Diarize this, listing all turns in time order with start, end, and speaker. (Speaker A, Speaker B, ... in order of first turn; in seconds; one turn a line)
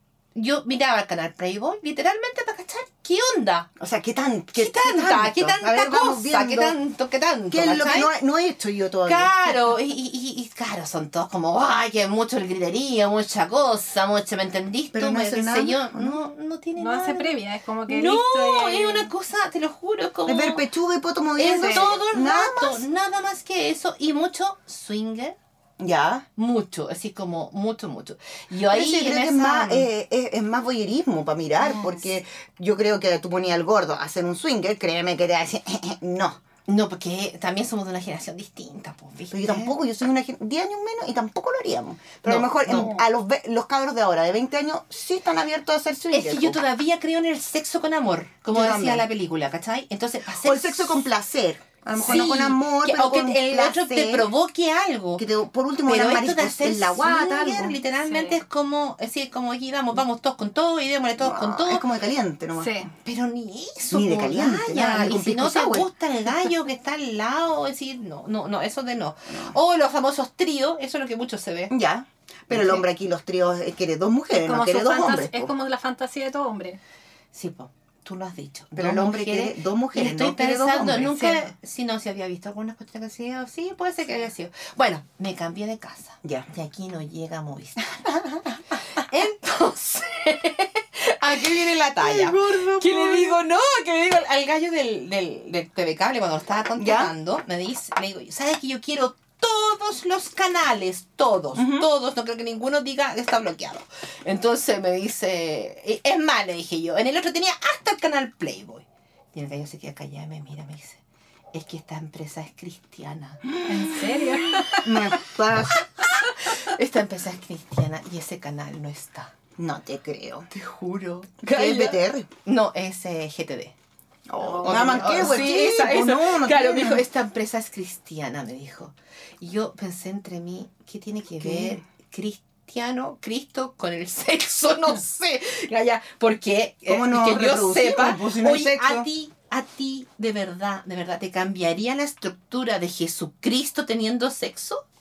Speaker A: 0.3-3.7
Speaker B: 3.8-6.8
Speaker A: 4.5-8.1
Speaker B: 7.5-9.5
Speaker A: 9.1-17.4
Speaker B: 14.9-16.2
Speaker C: 16.8-19.1
Speaker A: 17.9-20.6
Speaker B: 20.3-22.8
Speaker A: 21.4-25.4
Speaker C: 21.5-22.0
Speaker B: 25.8-26.2
Speaker A: 26.4-29.9
Speaker B: 28.7-36.4
Speaker C: 31.7-31.9
Speaker A: 36.7-39.7
Speaker B: 39.3-46.6
Speaker A: 42.2-43.0
Speaker C: 42.7-43.0
Speaker A: 46.1-51.0
Speaker B: 48.5-49.0
Speaker B: 50.4-54.3
Speaker A: 52.0-55.2
Speaker B: 55.2-57.8
Speaker A: 55.9-61.9
Speaker C: 58.0-58.4
Speaker B: 61.2-62.7
Speaker C: 62.6-62.9
Speaker A: 63.0-71.7
Speaker B: 63.9-65.9
Speaker B: 69.3-69.6
Speaker B: 71.7-75.5
Speaker A: 72.5-72.9
Speaker C: 74.3-76.8
Speaker A: 77.3-87.9
Speaker B: 78.8-81.2
Speaker C: 81.1-81.5
Speaker B: 86.2-86.5
Speaker B: 87.9-88.6
Speaker A: 89.0-111.0
Speaker B: 92.0-93.4
Speaker B: 96.8-97.1
Speaker B: 101.5-101.9
Speaker A: 111.5-113.5
Speaker B: 113.6-115.9
Speaker C: 113.7-115.2
Speaker A: 116.1-119.3
Speaker B: 119.6-120.5
Speaker A: 120.5-123.7
Speaker B: 121.4-122.3
Speaker B: 124.3-127.0
Speaker C: 124.4-125.4
Speaker A: 124.5-144.8
Speaker B: 131.4-131.8
Speaker B: 136.9-139.1